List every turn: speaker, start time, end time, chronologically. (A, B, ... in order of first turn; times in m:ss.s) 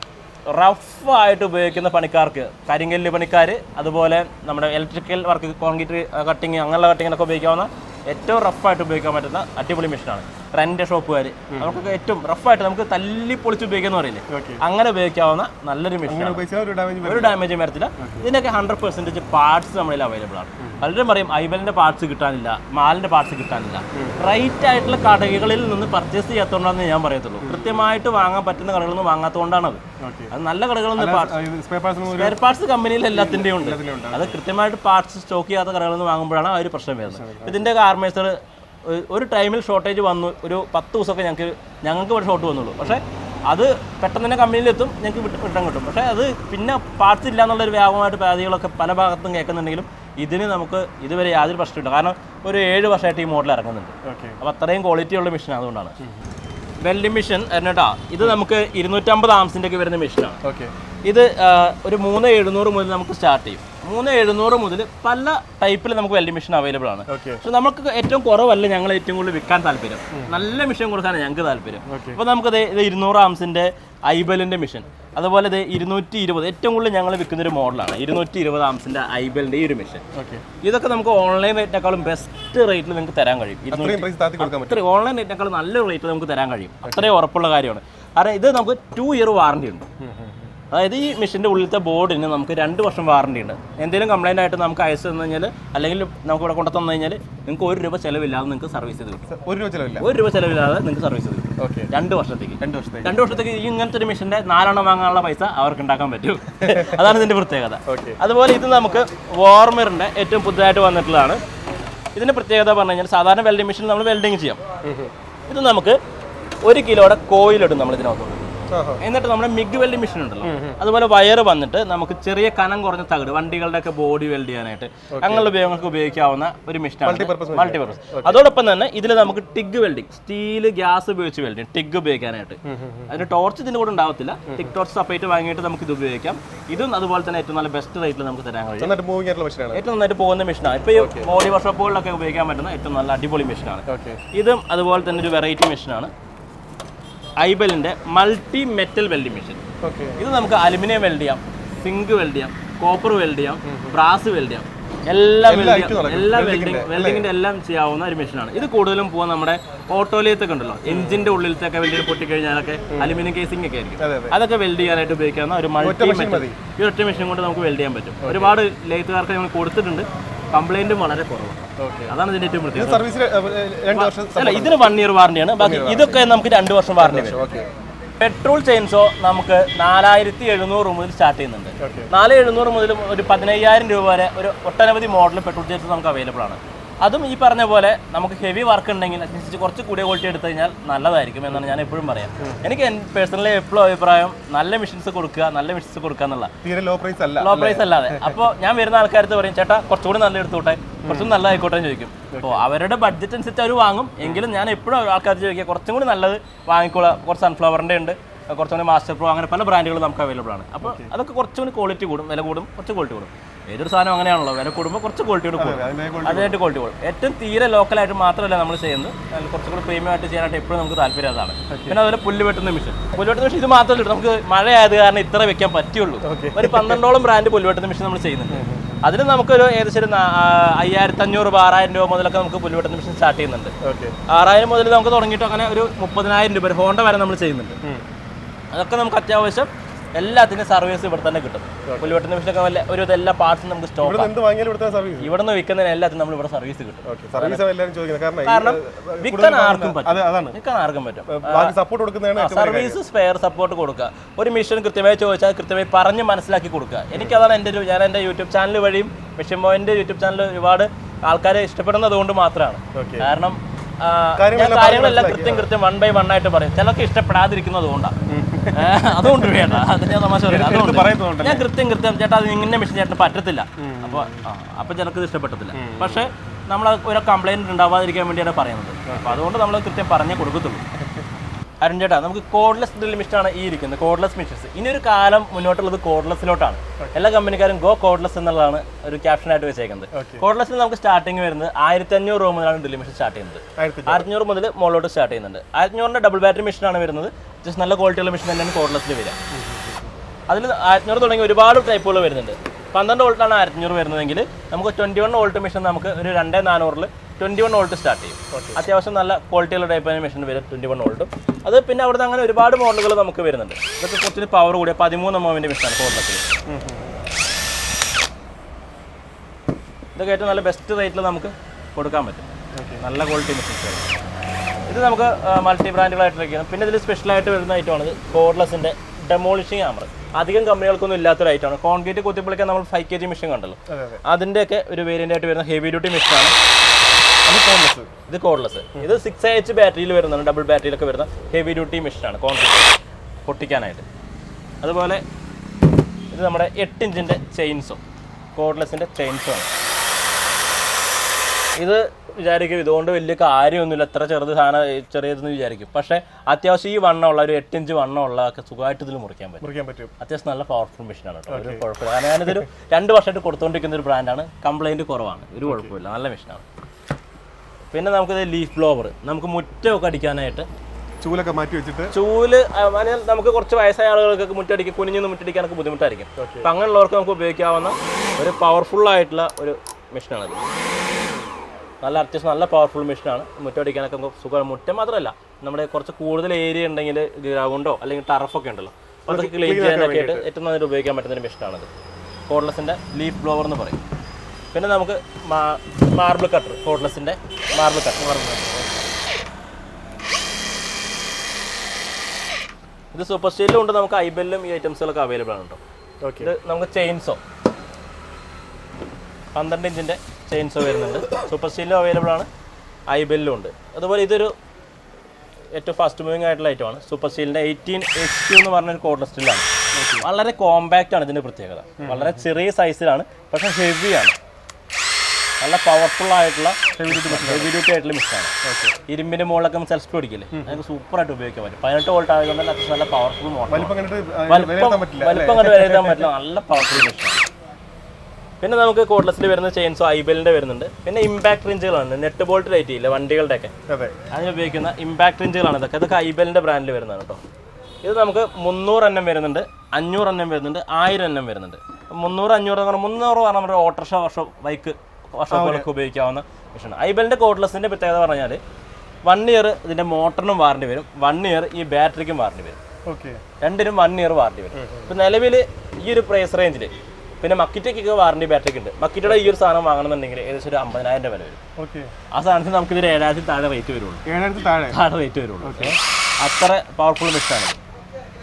0:00.5-0:16.4 A
0:11.5-0:11.9 B
0:14.3-0:14.6 B
0:16.1-0:17.4 B
0:17.0-0:29.8 A
0:18.0-0:18.3 B
0:23.9-0:24.2 B
0:27.4-0:27.7 B
0:30.0-0:30.3 B
0:30.3-0:31.3 A
0:31.0-0:32.4 B
0:32.1-0:56.0 A
0:33.1-0:34.4 B
0:37.1-0:37.6 B
0:54.0-0:54.4 B
0:56.8-1:00.4 A
1:00.4-1:00.7 B
1:01.1-1:20.0 A
1:07.1-1:07.4 B
1:10.1-1:10.4 B
1:11.9-1:12.2 B
1:20.1-1:20.4 B
1:20.6-1:29.9 A
1:23.7-1:24.8 B
1:26.8-1:27.1 B
1:30.0-1:30.5 B
1:30.7-1:39.3 A
1:39.3-1:40.1 B
1:40.0-1:51.4 A
1:41.6-1:41.9 B
1:42.6-1:43.4 B
1:46.6-1:47.1 B
1:47.9-1:48.2 B
1:52.2-1:54.6 A
1:54.8-1:55.1 B
1:55.5-1:56.0 A
1:56.6-2:19.0 A
1:58.7-1:59.0 B
2:00.4-2:00.8 B
2:05.2-2:05.5 B
2:07.0-2:08.4 B
2:12.7-2:13.2 B
2:14.5-2:14.7 B
2:18.8-2:19.8 B
2:19.7-2:26.1 A
2:21.0-2:21.3 B
2:23.9-2:24.2 B
2:27.4-2:29.6 A
2:29.8-2:30.2 B
2:30.2-2:53.0 A
2:33.7-2:34.0 B
2:35.5-2:37.3 B
2:40.9-2:41.3 B
2:42.9-2:43.2 B
2:44.0-2:44.4 B
2:45.8-2:46.6 B
2:48.2-2:48.6 B
2:51.8-2:52.2 B
2:52.7-2:54.9 B
2:53.9-2:57.4 A
2:55.6-2:56.3 B
2:57.0-2:57.7 B
2:58.2-3:16.5 A
3:01.8-3:02.1 B
3:16.6-3:18.4 B
3:17.4-3:53.7 A
3:21.0-3:21.3 B
3:22.3-3:22.6 B
3:30.8-3:31.1 B
3:35.6-3:36.6 B
3:41.7-3:42.0 B
3:46.2-3:47.0 B
3:48.5-3:49.0 B
3:53.8-3:54.2 B
3:54.3-3:57.8 A
3:58.7-4:04.3 A
4:01.9-4:02.1 B
4:04.0-4:05.3 B
4:05.2-4:07.6 A
4:07.0-4:10.6 B
4:08.4-4:11.7 A
4:11.3-4:13.0 B
4:12.4-4:28.2 A
4:22.9-4:23.3 B
4:24.4-4:25.7 B
4:28.3-4:29.8 B
4:28.7-4:40.8 A
4:30.5-4:31.7 B
4:33.8-4:34.4 B
4:35.7-4:36.3 B
4:39.1-4:39.4 B
4:41.8-4:59.4 A
4:50.1-4:50.4 B
4:53.8-4:54.3 B
4:59.5-5:00.1 B
5:00.5-5:16.5 A
5:08.5-5:08.8 B
5:16.7-5:17.2 B
5:20.2-5:22.5 A
5:22.8-5:23.0 B
5:23.0-5:24.1 A
5:24.9-5:36.5 A
5:33.9-5:34.2 B
5:37.5-5:38.1 B
5:38.3-5:44.0 A
5:44.8-5:45.2 A
5:46.3-5:48.0 A
5:48.6-5:49.7 A
5:51.8-5:59.7 A
5:59.6-6:00.1 B
6:00.2-6:06.6 A
6:01.5-6:01.8 B
6:05.6-6:05.9 B
6:07.9-6:10.7 A
6:11.2-6:12.1 B
6:12.1-6:20.6 A
6:16.4-6:16.7 B
6:22.0-6:31.9 A
6:29.3-6:30.5 B
6:32.5-6:34.0 A
6:34.7-6:38.4 A
6:38.2-6:39.0 B
6:43.1-6:45.8 A
6:46.2-6:46.5 B
6:46.4-6:47.4 A
6:49.6-6:52.5 A
6:53.1-6:54.5 A
6:55.8-6:59.7 A
7:00.0-7:00.3 B
7:00.2-7:04.4 A
7:02.0-7:02.4 B
7:05.6-7:08.5 A
7:07.0-7:07.8 B
7:08.6-7:09.0 B
7:09.1-7:13.9 A
7:10.5-7:10.8 B
7:13.7-7:16.3 B
7:14.5-7:17.4 A
7:18.6-7:23.7 A
7:23.9-7:24.1 B
7:24.3-7:27.4 A
7:28.0-7:38.6 A
7:35.5-7:35.9 B
7:39.3-7:42.8 A
7:43.1-7:43.4 B
7:43.6-7:51.6 A
7:44.8-7:45.2 B
7:51.8-7:52.1 B
7:52.3-7:54.2 A
7:54.3-7:55.0 B
7:54.9-7:57.8 A
7:55.6-7:56.0 B